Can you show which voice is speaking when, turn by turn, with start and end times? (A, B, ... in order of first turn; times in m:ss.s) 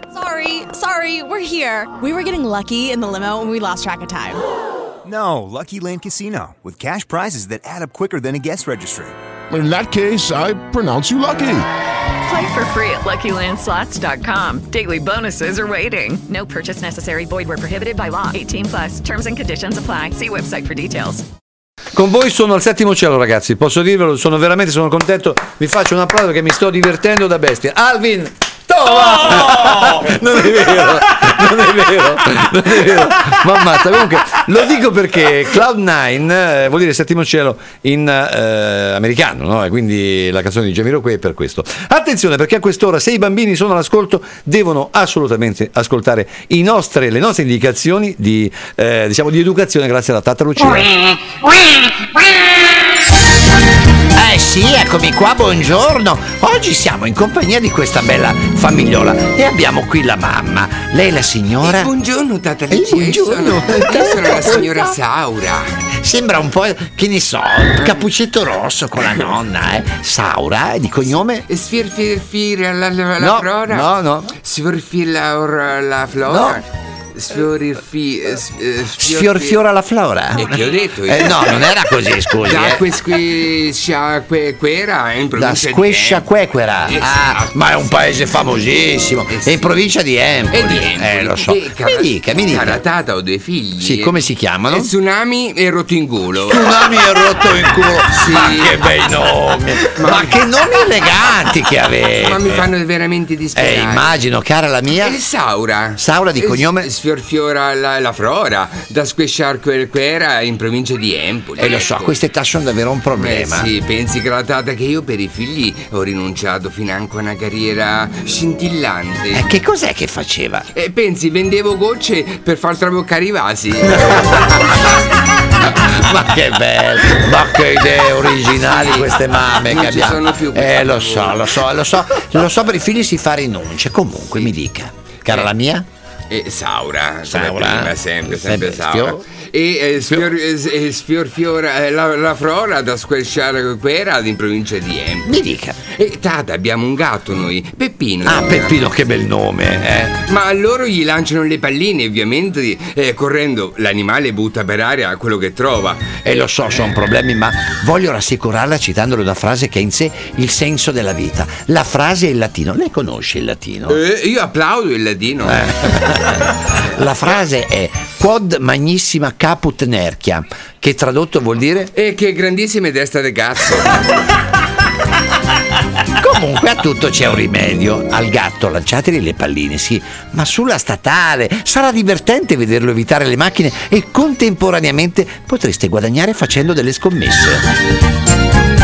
0:00.1-0:04.4 A
0:05.0-0:09.1 B
0:09.5-0:11.7 C
0:12.2-0:21.2 D
0:21.9-0:23.7 E
0:24.3-0:28.2 E
0:28.7-0:36.9 E
0:37.7-0:39.8 E
0:40.6-0:42.2 E
0:54.1-1:01.9 F
1:01.6-1:05.8 G
1:02.7-1:05.0 F
1:06.0-1:11.5 F
1:07.8-1:08.1 G
1:11.5-1:19.6 G
1:13.2-1:14.3 F
1:16.2-1:16.6 F
1:19.0-1:23.0 F
1:20.3-1:21.7 G
1:22.4-1:26.3 G
1:25.3-1:32.8 F
1:26.8-1:27.9 G
1:29.3-1:29.8 G
1:30.5-1:37.4 G
1:33.8-1:34.9 F
1:36.4-1:42.7 F
1:38.1-1:38.8 G
1:39.9-1:40.4 G
1:42.2-1:44.2 G
1:43.5-1:45.2 F
1:44.9-1:52.2 G
1:46.0-1:46.9 F
1:51.6-1:53.7 F
1:53.2-1:59.6 G
1:59.3-2:00.7 F
2:00.7-2:04.8 G
2:04.1-2:04.6 F
2:05.6-2:15.9 F
2:08.5-2:11.5 G
2:16.3-2:28.9 G
2:17.2-2:19.2 F
2:25.2-2:25.8 F
2:28.2-2:30.2 F
2:30.2-2:36.9 G
2:36.2-2:44.0 F
2:43.9-2:45.7 G
2:45.4-2:51.9 F
2:51.9-2:54.2 G
2:56.2-3:07.6 F